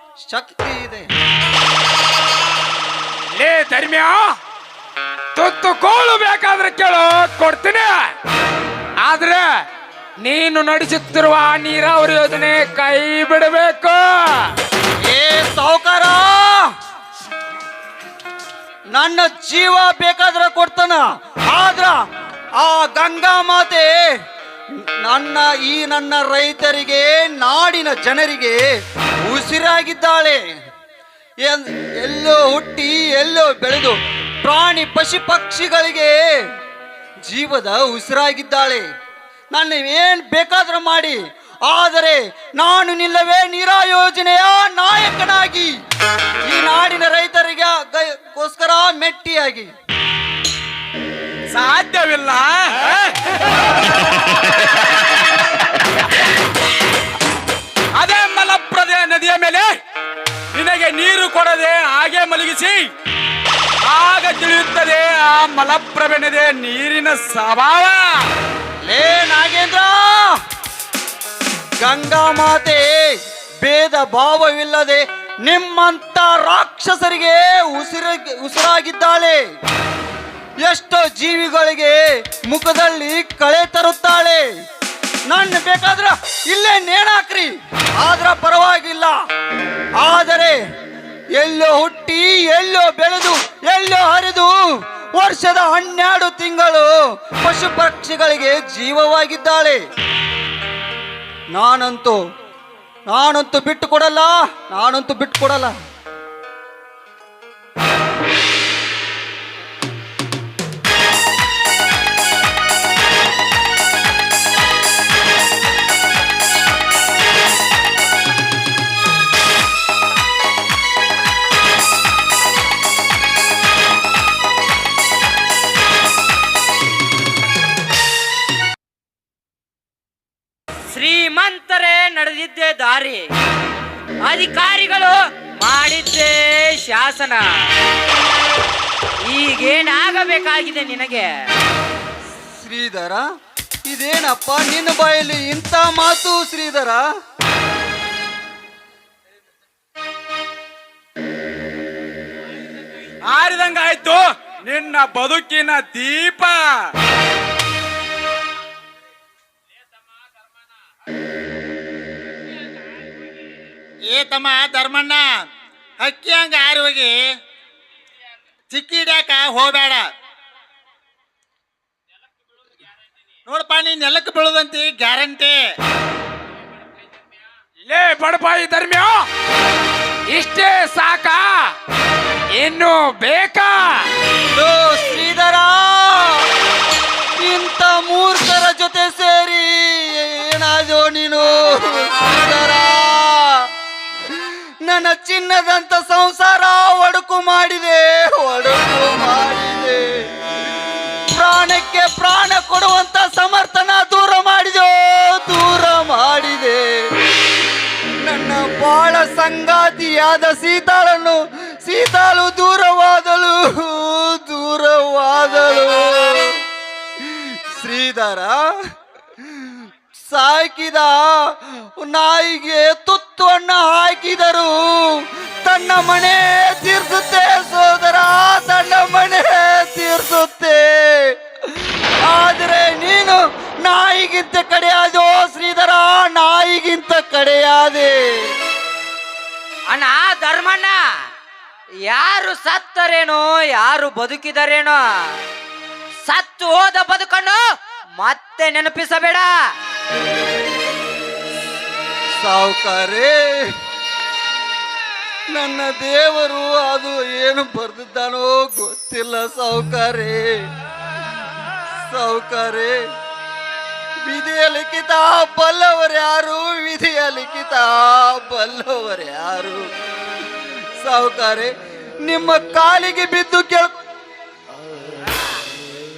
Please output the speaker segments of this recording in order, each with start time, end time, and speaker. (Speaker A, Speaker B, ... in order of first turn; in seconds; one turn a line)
Speaker A: 0.2-1.1
Speaker B: 3.4-4.2
Speaker B: 5.3-7.9
Speaker B: 9.0-9.4
Speaker B: 10.2-14.5
Speaker A: 15.0-16.7
Speaker A: 18.9-21.9
Speaker A: 22.6-23.9
Speaker A: 24.8-28.6
Speaker A: 29.2-30.5
Speaker A: 31.4-36.3
Speaker A: 37.2-38.9
Speaker A: 39.5-45.7
Speaker A: 46.5-49.7
Speaker C: 51.5-53.1
Speaker C: 58.0-59.8
Speaker C: 60.5-62.8
Speaker C: 63.8-68.1
Speaker A: 68.8-70.4
Speaker A: 71.8-79.4
Speaker A: 80.6-84.5
Speaker A: 85.3-89.1
Speaker A: 90.0-90.6
Speaker A: 91.3-99.8
Speaker A: 101.5-102.2
Speaker A: 103.1-105.7
Speaker D: 130.9-133.3
Speaker D: 134.2-137.5
Speaker D: 139.2-141.3
Speaker A: 142.6-143.2
Speaker A: 143.8-147.0
Speaker C: 153.2-156.7
Speaker E: 164.1-165.3
Speaker E: 166.0-167.2
Speaker E: 168.7-170.1
Speaker E: 173.5-175.6
Speaker B: 177.8-179.2
Speaker B: 180.3-181.4
Speaker B: 182.6-184.0
Speaker A: 184.5-186.4
Speaker A: 187.4-193.7
Speaker A: 194.3-200.3
Speaker A: 201.3-207.1
Speaker A: 208.2-216.6
Speaker A: 217.2-218.7
Speaker A: 219.4-238.3
Speaker D: 239.9-240.9
Speaker D: 242.1-245.0
Speaker D: 246.2-247.6
Speaker D: 248.2-249.5
Speaker A: 252.4-253.7
Speaker A: 255.5-260.7
Speaker A: 262.1-263.0
Speaker A: 264.2-269.9
Speaker A: 271.0-271.7
Speaker A: 272.2-273.9